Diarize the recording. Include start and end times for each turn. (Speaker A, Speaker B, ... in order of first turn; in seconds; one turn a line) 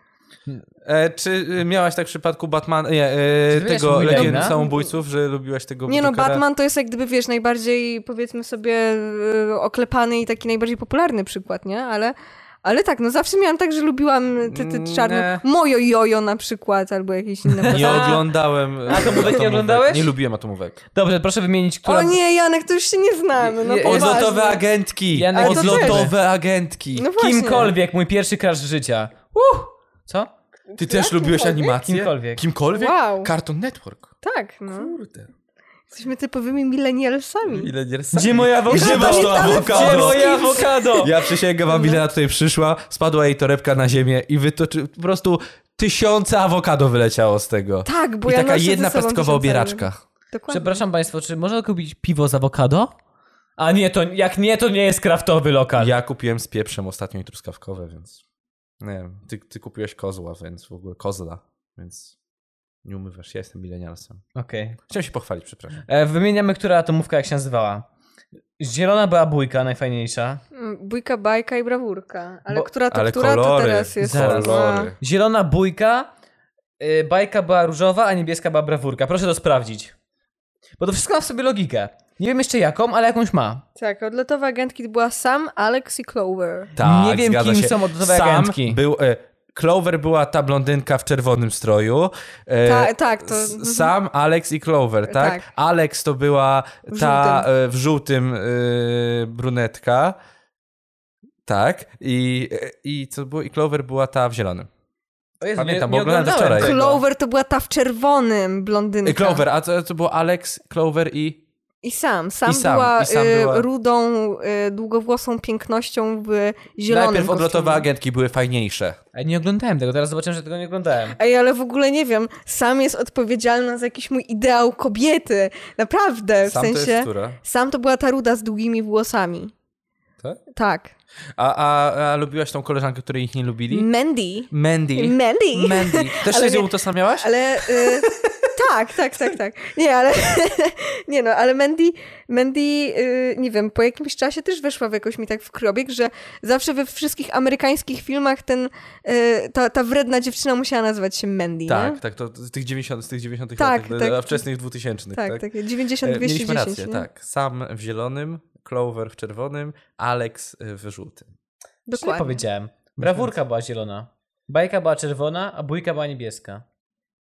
Speaker A: 0.8-6.4
Speaker B: 3.5-4.5
Speaker C: 4.1-4.9
Speaker C: 5.9-18.3
Speaker A: 14.5-15.4
Speaker B: 17.5-18.2
Speaker A: 17.7-20.8
Speaker B: 18.9-20.1
Speaker C: 18.9-19.3
Speaker B: 20.9-22.2
Speaker C: 21.9-24.6
Speaker B: 23.4-24.3
Speaker A: 23.8-27.1
Speaker B: 25.1-26.1
Speaker C: 25.3-26.1
Speaker C: 26.9-27.7
Speaker B: 27.2-30.3
Speaker C: 30.7-31.8
Speaker A: 30.8-34.1
Speaker B: 31.8-32.4
Speaker C: 32.7-33.3
Speaker C: 34.2-34.9
Speaker A: 34.7-35.3
Speaker C: 35.9-37.7
Speaker A: 37.4-50.0
Speaker B: 38.1-41.1
Speaker C: 38.7-42.0
Speaker C: 47.9-50.8
Speaker B: 50.5-52.9
Speaker B: 53.6-55.9
Speaker A: 55.8-58.2
Speaker A: 58.8-62.1
Speaker A: 62.8-64.2
Speaker B: 64.3-64.8
Speaker A: 64.9-65.8
Speaker B: 65.9-67.8
Speaker B: 68.6-70.4
Speaker C: 70.5-74.9
Speaker A: 72.5-75.0
Speaker B: 74.0-76.1
Speaker B: 76.8-79.9
Speaker B: 80.8-83.6
Speaker C: 83.8-86.7
Speaker A: 86.8-100.2
Speaker B: 86.8-88.8
Speaker C: 92.6-93.9
Speaker C: 95.1-95.4
Speaker C: 96.9-97.5
Speaker A: 101.5-104.7
Speaker B: 105.4-107.0
Speaker A: 105.6-106.8
Speaker C: 106.5-109.4
Speaker A: 109.0-111.4
Speaker C: 111.8-117.8
Speaker A: 112.5-113.7
Speaker A: 116.9-119.0
Speaker B: 119.1-121.2
Speaker C: 121.2-129.5
Speaker A: 126.4-127.4
Speaker C: 130.5-130.9
Speaker A: 131.4-133.9
Speaker C: 133.7-152.0
Speaker A: 134.5-138.5
Speaker A: 151.7-155.4
Speaker C: 153.6-154.4
Speaker C: 155.1-157.1
Speaker A: 156.0-161.3
Speaker C: 161.9-162.4
Speaker B: 161.9-166.6
Speaker A: 163.0-163.3